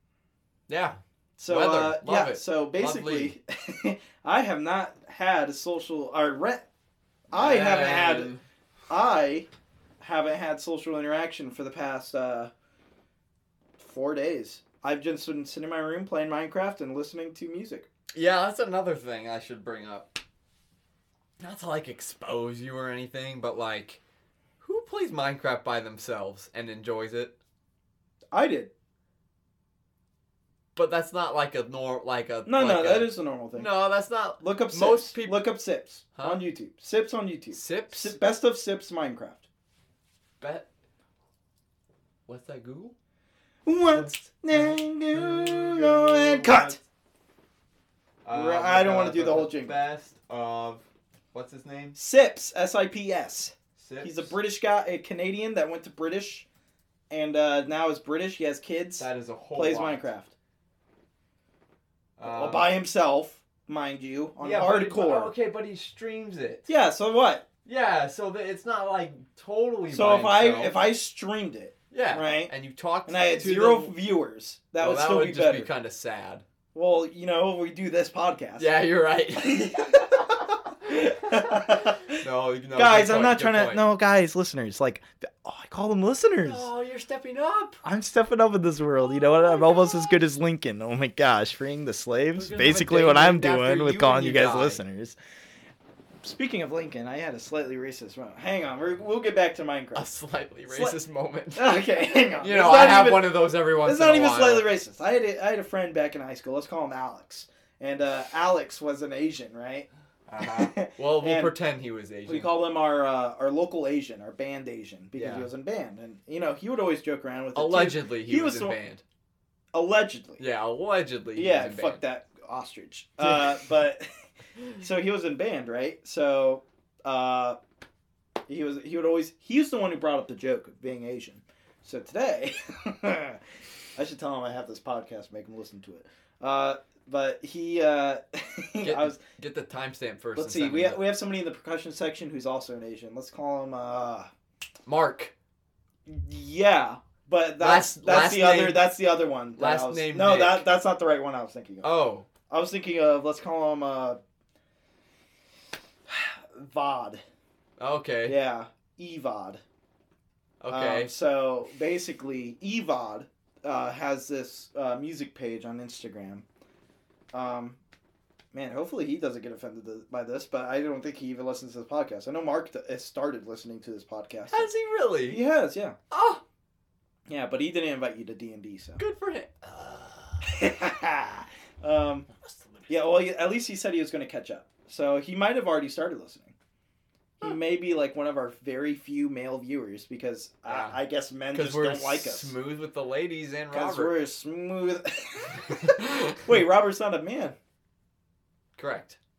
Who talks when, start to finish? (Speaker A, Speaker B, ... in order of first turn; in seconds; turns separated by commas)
Speaker A: 0.7-3.4, Speaker B: 1.4-6.7, Speaker B: 7.3-8.3, Speaker A: 7.3-8.4, Speaker B: 8.9-9.5, Speaker B: 10.0-12.5, Speaker B: 13.8-17.9, Speaker A: 18.1-20.2, Speaker A: 21.4-24.0, Speaker A: 24.6-27.4, Speaker B: 28.3-28.7, Speaker A: 30.8-35.4, Speaker B: 32.5-33.7, Speaker B: 34.4-39.5, Speaker A: 36.1-36.4, Speaker A: 37.5-38.2, Speaker A: 40.4-40.7, Speaker A: 42.3-42.9, Speaker B: 43.7-46.8, Speaker A: 43.9-46.8, Speaker A: 48.2-52.0, Speaker B: 48.3-49.8, Speaker B: 52.0-56.5, Speaker A: 53.8-54.4, Speaker B: 57.1-60.3, Speaker A: 59.0-60.1, Speaker A: 62.2-62.7, Speaker B: 62.2-65.3, Speaker A: 64.4-66.7, Speaker B: 66.7-67.5, Speaker A: 67.7-70.8, Speaker B: 69.9-72.5, Speaker A: 71.9-74.0, Speaker B: 73.1-75.7, Speaker A: 74.8-76.5, Speaker B: 76.7-78.7, Speaker A: 78.6-80.5, Speaker B: 79.4-86.7, Speaker A: 81.3-83.9, Speaker A: 86.4-87.8, Speaker B: 87.8-95.2, Speaker A: 89.0-90.2, Speaker A: 92.3-94.8, Speaker B: 96.2-100.1, Speaker A: 100.0-101.8, Speaker B: 100.7-101.0, Speaker B: 101.5-109.9, Speaker A: 102.4-104.7, Speaker A: 110.3-112.5, Speaker B: 110.4-111.5, Speaker B: 112.2-118.8, Speaker A: 115.2-115.5, Speaker A: 117.5-119.0, Speaker B: 119.7-120.4, Speaker A: 120.4-122.0, Speaker B: 121.3-124.0, Speaker A: 123.2-123.6, Speaker B: 124.8-127.6, Speaker B: 128.5-133.4, Speaker B: 134.0-139.2, Speaker A: 138.8-141.1, Speaker B: 140.4-144.3, Speaker A: 144.9-145.3, Speaker B: 146.1-151.9, Speaker A: 147.6-148.9, Speaker A: 149.6-150.7, Speaker A: 151.8-152.3, Speaker B: 152.5-154.2, Speaker B: 156.1-157.2, Speaker A: 157.8-158.4, Speaker B: 158.2-159.6, Speaker A: 160.6-161.1, Speaker B: 160.7-166.5, Speaker B: 167.3-167.8, Speaker B: 168.5-174.7, Speaker A: 174.5-175.4, Speaker B: 175.3-176.0, Speaker A: 176.1-176.4, Speaker B: 177.3-179.0, Speaker A: 179.0-180.4, Speaker B: 180.4-182.3, Speaker A: 182.3-183.1, Speaker B: 182.9-186.5, Speaker B: 187.4-192.5, Speaker A: 190.7-191.0, Speaker A: 191.5-194.2, Speaker B: 193.7-197.6, Speaker A: 195.8-196.3, Speaker A: 198.8-199.2